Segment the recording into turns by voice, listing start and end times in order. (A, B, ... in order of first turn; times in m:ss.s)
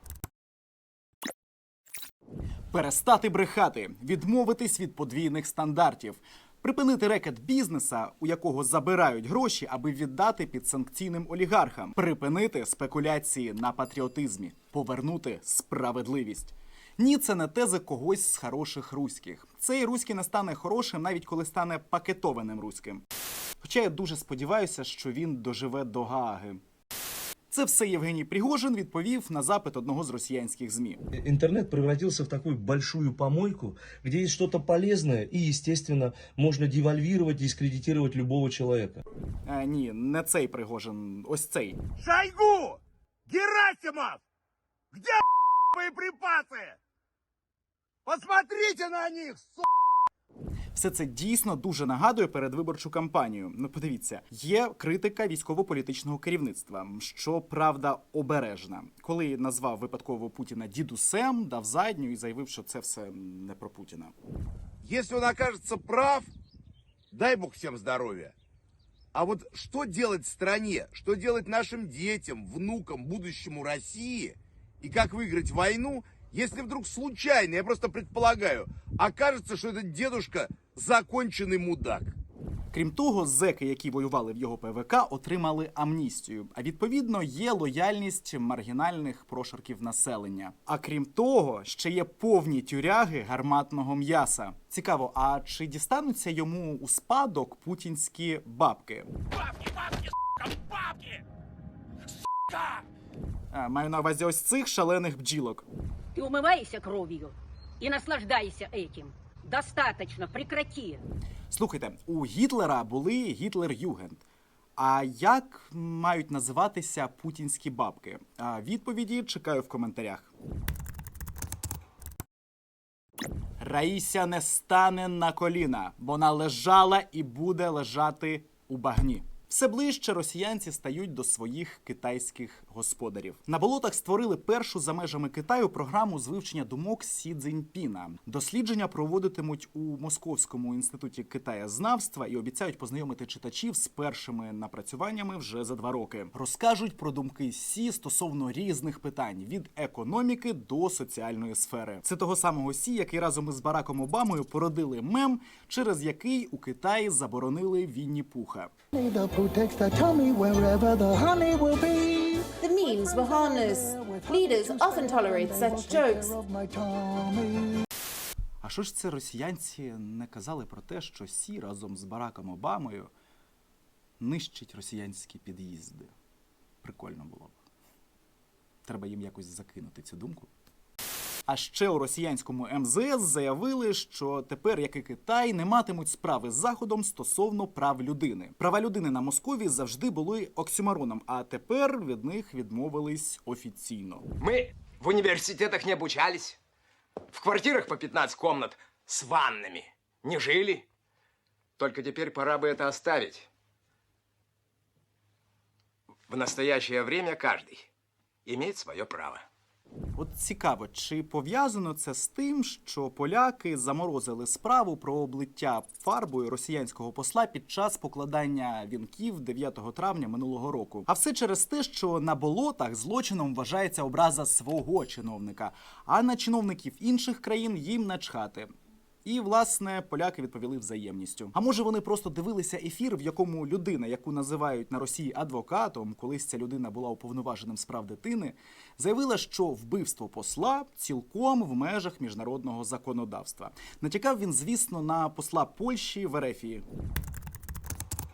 0:02.7-0:23.0 A
0:23.6-0:26.6 A
0:27.5-0:31.0 A
0:31.1-0:39.0 B
0:39.4-0:41.8 A
0:42.0-0:44.2 C
0:44.9-0:46.8 C
0:48.0-0:49.7 C
0:50.7-1:04.1 A
1:04.8-1:06.3 C
1:07.1-1:08.3 C
1:09.1-1:22.2 C
1:22.7-1:39.1 A
1:43.5-1:45.7 A
1:46.2-1:51.0 D
1:51.5-1:54.2 A
1:54.8-2:00.3 A
2:03.6-2:38.7 A
2:39.0-2:42.6 E
2:42.6-2:46.3 F
2:43.9-2:45.0 E
2:45.8-2:47.8 E
2:48.6-2:53.1 A
2:54.2-2:56.1 A
2:56.8-2:57.6 A
2:58.8-3:00.5 A
3:01.5-3:14.2 A
3:14.4-3:16.6 G
3:17.3-3:20.9 G
3:21.8-3:23.5 G
3:26.3-3:27.9 G
3:28.4-3:29.4 G
3:30.2-3:48.7 A
3:49.2-4:06.8 A